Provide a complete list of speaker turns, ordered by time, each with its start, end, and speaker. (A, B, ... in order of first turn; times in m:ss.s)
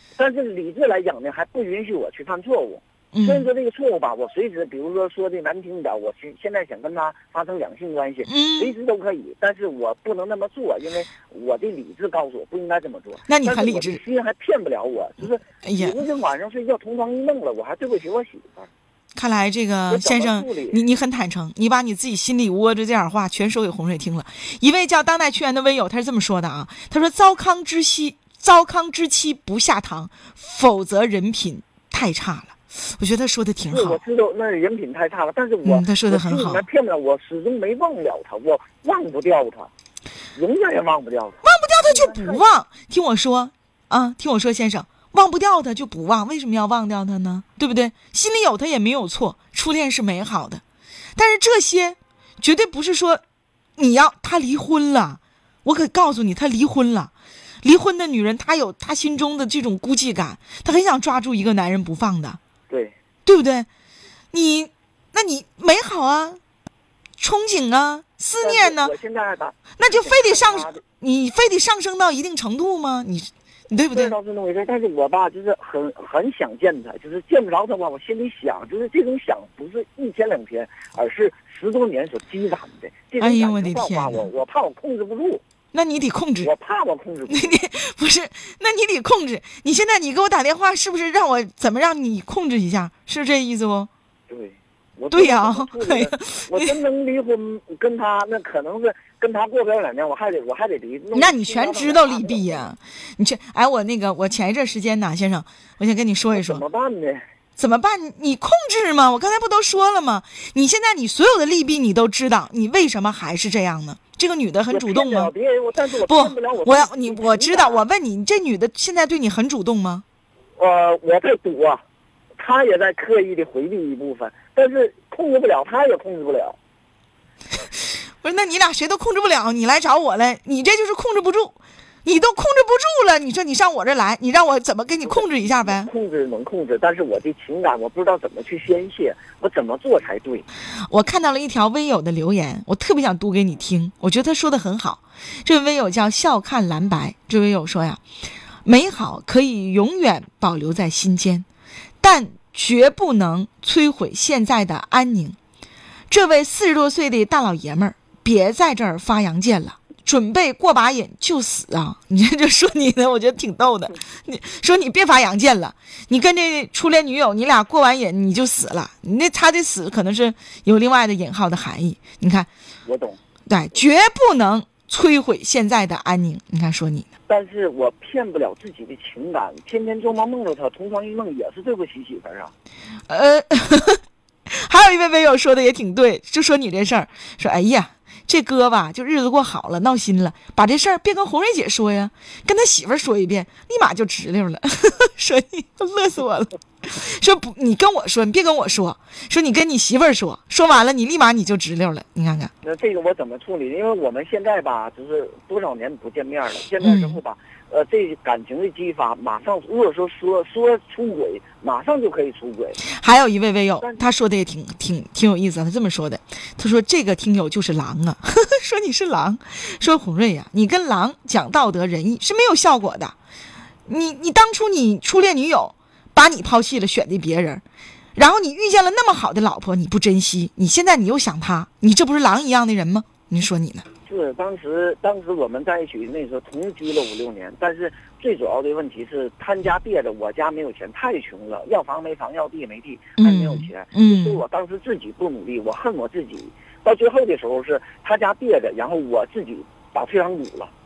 0:00.2-0:18.7 A
0:03.1-0:03.5 B
0:08.2-0:08.7 B
0:13.3-0:14.0 B
0:15.6-0:16.0 B
0:19.1-0:34.0 B
0:19.9-0:20.8 A
0:33.7-0:39.7 A
0:35.6-0:36.6 B
0:40.3-0:42.4 A
0:41.4-0:50.6 B
0:51.2-0:53.2 B
0:53.8-0:57.1 B
0:57.6-1:02.4 B
1:02.7-1:03.0 A
1:03.2-1:03.7 B
1:04.3-1:06.4 B
1:07.2-1:08.9 B
1:08.4-1:10.8 A
1:09.8-1:14.1 B
1:13.9-1:25.4 A
1:23.2-1:24.3 B
1:25.7-1:26.5 B
1:26.4-1:27.7 A
1:27.3-1:33.9 B
1:34.3-1:42.7 A
1:35.1-1:36.7 B
1:41.1-1:46.6 B
1:46.3-1:47.2 A
1:47.6-1:55.3 B
1:54.7-1:57.8 A
1:56.0-2:00.0 B
2:00.6-2:01.8 A
2:02.4-2:06.6 A
2:08.2-2:15.9 B
2:15.0-2:20.5 A
2:20.9-2:28.0 B
2:28.6-2:31.4 B
2:32.0-2:35.4 B
2:36.1-2:52.5 B
2:52.8-2:53.2 A
2:53.5-2:57.1 B
2:57.3-3:02.5 A
3:03.1-3:22.5 B
3:22.6-3:32.8 A
3:26.8-3:27.2 B
3:32.9-3:43.1 B
3:33.8-3:34.0 A
3:43.9-3:47.6 B
3:48.1-3:53.8 B
3:54.0-4:10.7 A
4:03.2-4:04.4 B